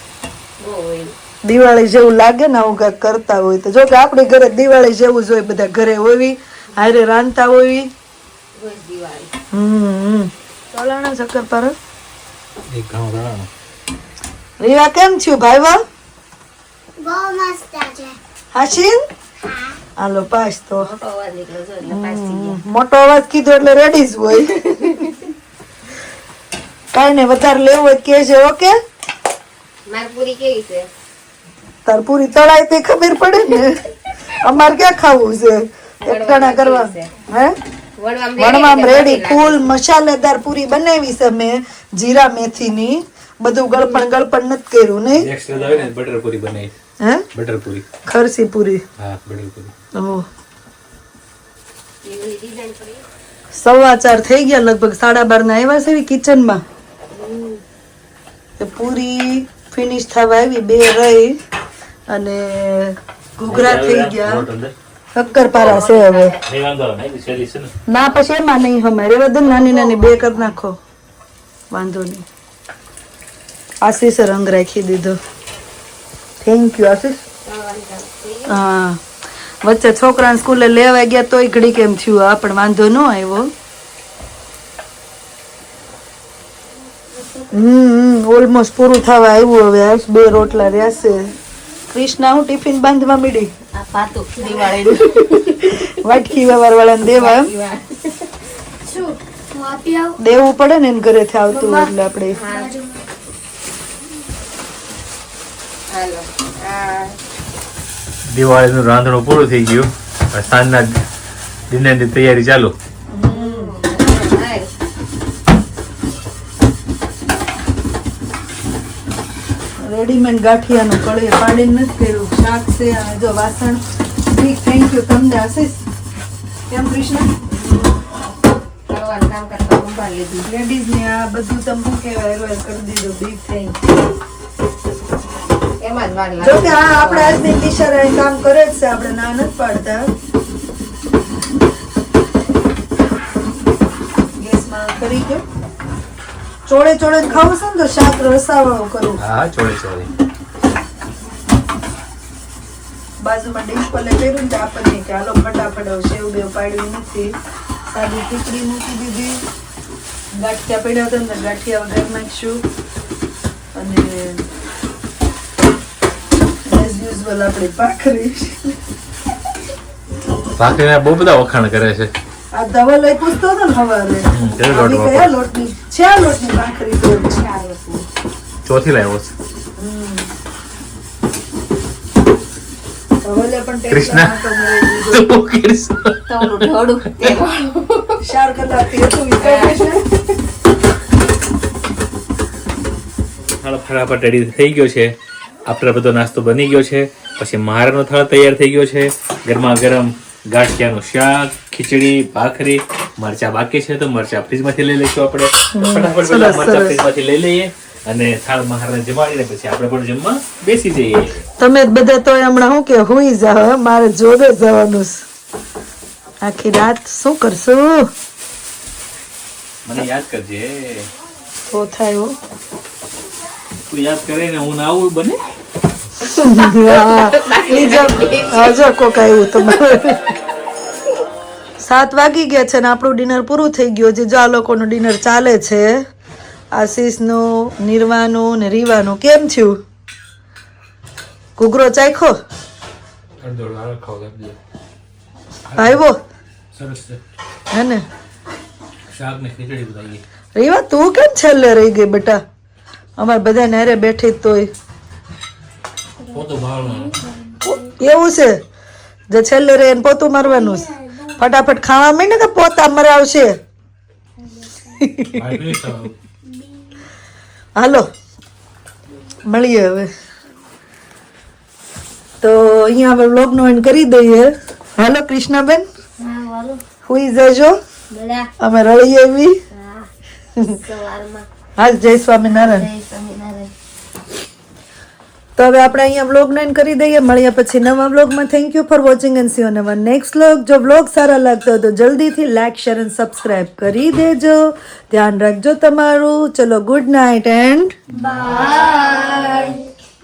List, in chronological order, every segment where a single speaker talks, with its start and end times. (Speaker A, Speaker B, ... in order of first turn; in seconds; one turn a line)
Speaker A: 0.6-1.1
Speaker B: 1.4-7.9
Speaker A: 8.5-9.3
Speaker B: 9.5-11.7
Speaker C: 12.7-13.5
Speaker B: 14.6-15.8
Speaker D: 17.0-18.2
Speaker B: 18.5-19.0
Speaker B: 20.0-20.9
Speaker A: 20.8-22.6
Speaker B: 21.9-25.1
Speaker A: 24.5-25.1
Speaker B: 26.9-28.7
Speaker A: 29.9-30.9
Speaker B: 31.9-33.8
Speaker B: 34.4-37.5
Speaker A: 36.0-37.1
Speaker A: 38.0-39.7
Speaker B: 38.4-45.3
Speaker A: 43.7-44.0
Speaker C: 45.1-46.7
Speaker A: 45.5-45.9
Speaker C: 47.3-47.8
Speaker B: 48.1-48.8
Speaker C: 49.0-49.7
Speaker B: 49.9-50.2
Speaker A: 52.0-53.0
Speaker B: 53.5-56.6
Speaker A: 57.1-57.6
Speaker B: 58.6-61.4
Speaker B: 62.1-64.4
Speaker C: 63.5-64.7
Speaker B: 65.1-66.3
Speaker A: 65.3-66.4
Speaker C: 66.4-67.7
Speaker B: 67.9-70.8
Speaker A: 68.0-68.2
Speaker A: 69.4-70.6
Speaker B: 71.7-72.2
Speaker B: 73.8-75.2
Speaker B: 76.4-77.2
Speaker A: 77.4-78.6
Speaker B: 78.5-79.0
Speaker B: 79.6-83.5
Speaker A: 87.2-87.5
Speaker B: 87.5-91.3
Speaker B: 91.9-93.5
Speaker A: 93.7-95.8
Speaker B: 95.6-97.5
Speaker A: 97.1-98.3
Speaker D: 98.9-100.1
Speaker B: 100.2-102.4
Speaker A: 102.3-102.9
Speaker A: 105.9-107.2
Speaker C: 108.3-110.9
Speaker C: 111.7-112.7
Speaker B: 113.1-113.7
Speaker A: 113.2-114.7
Speaker B: 119.8-125.8
Speaker B: 126.7-127.3
Speaker A: 127.5-127.9
Speaker A: 128.8-130.5
Speaker B: 130.4-133.8
Speaker A: 135.8-137.4
Speaker B: 136.4-140.1
Speaker B: 144.4-145.4
Speaker B: 146.7-149.2
Speaker C: 149.2-150.1
Speaker B: 153.2-157.3
Speaker B: 157.9-159.4
Speaker B: 160.3-162.6
Speaker B: 163.7-164.4
Speaker B: 166.7-168.7
Speaker C: 170.6-172.1
Speaker B: 172.5-177.4
Speaker C: 174.3-175.3
Speaker A: 177.1-178.1
Speaker C: 178.7-179.3
Speaker B: 179.8-180.3
Speaker B: 183.2-185.2
Speaker C: 183.9-184.3
Speaker C: 185.1-187.3
Speaker A: 186.3-188.2
Speaker B: 188.2-190.0
Speaker A: 189.3-190.2
Speaker C: 193.5-195.1
Speaker C: 195.7-211.4
Speaker B: 205.7-207.0
Speaker B: 211.6-215.2
Speaker B: 216.4-218.1
Speaker C: 219.8-221.1
Speaker B: 221.7-222.3
Speaker C: 223.9-225.4
Speaker A: 226.2-229.2
Speaker B: 226.3-230.2
Speaker B: 231.8-235.9
Speaker B: 236.7-239.8
Speaker B: 241.6-242.4
Speaker C: 243.4-244.6
Speaker C: 245.7-246.0
Speaker B: 245.8-246.2
Speaker C: 246.7-247.2
Speaker B: 247.7-248.0
Speaker C: 249.1-250.2
Speaker B: 250.6-252.4
Speaker B: 253.2-254.7
Speaker C: 256.3-257.2
Speaker B: 258.0-258.6
Speaker B: 259.3-263.5
Speaker B: 265.0-265.4
Speaker C: 265.3-266.1
Speaker B: 267.8-268.0
Speaker B: 269.4-270.1
Speaker B: 272.4-275.9
Speaker A: 276.2-276.8
Speaker B: 277.1-277.8
Speaker A: 278.1-278.5
Speaker B: 278.6-279.5
Speaker A: 279.7-280.1
Speaker A: 280.7-281.5
Speaker B: 281.8-282.9
Speaker A: 282.4-283.7
Speaker B: 285.6-297.9
Speaker A: 298.2-299.8